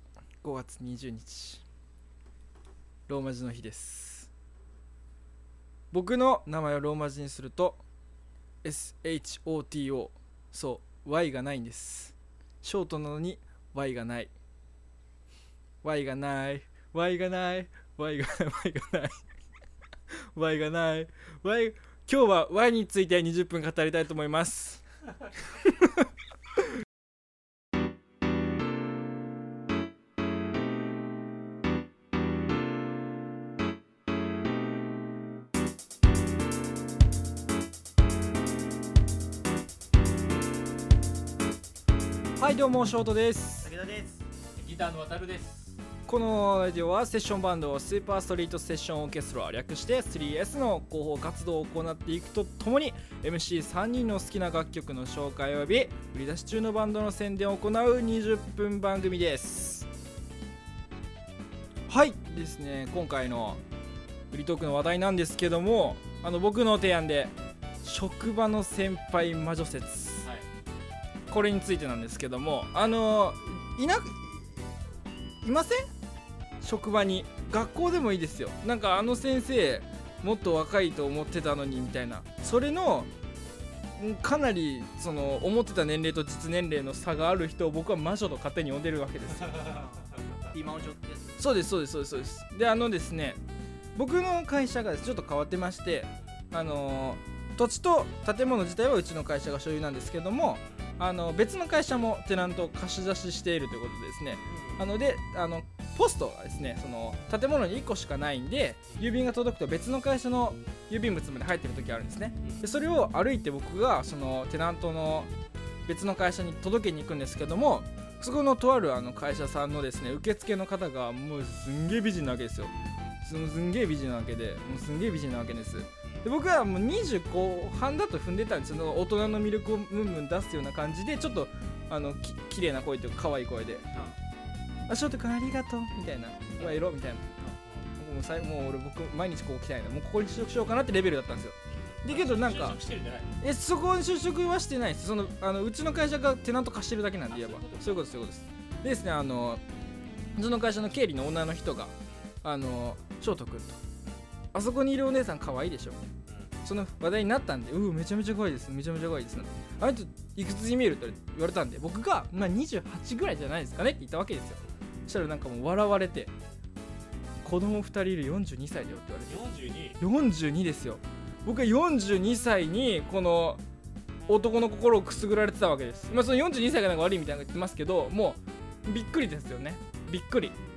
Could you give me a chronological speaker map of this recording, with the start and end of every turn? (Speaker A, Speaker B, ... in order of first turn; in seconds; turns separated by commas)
Speaker A: 0.4-1.6, Speaker A: 3.1-4.3, Speaker A: 5.9-7.8, Speaker A: 8.6-14.3, Speaker A: 15.8-19.2, Speaker A: 20.3-24.8, Speaker A: 25.6-26.1, Speaker A: 42.4-43.7, Speaker B: 43.6-44.2, Speaker C: 44.5-45.8, Speaker A: 46.1-59.9, Speaker A: 61.9-63.6, Speaker A: 64.3-70.3, Speaker C: 70.2-70.5, Speaker A: 71.3-74.7, Speaker A: 75.4-75.9, Speaker A: 76.6-83.1, Speaker A: 84.0-89.8, Speaker C: 89.3-90.5, Speaker B: 89.6-91.5, Speaker A: 91.4-93.4, Speaker A: 93.9-115.3, Speaker C: 96.2-96.4, Speaker C: 100.6-101.0, Speaker C: 104.5-104.9, Speaker C: 112.4-112.7, Speaker A: 115.9-122.7, Speaker C: 118.0-118.2, Speaker A: 123.2-134.0, Speaker A: 134.9-137.3, Speaker C: 136.6-136.8, Speaker C: 137.4-137.9, Speaker A: 138.0-142.8, Speaker C: 141.7-143.4, Speaker A: 143.4-149.6, Speaker C: 147.3-148.1, Speaker A: 150.3-153.8, Speaker A: 154.5-156.0, Speaker C: 156.2-156.6, Speaker A: 156.6-166.3, Speaker C: 164.6-165.0, Speaker A: 167.4-169.5, Speaker C: 169.2-170.0, Speaker A: 170.0-173.6, Speaker A: 174.3-180.6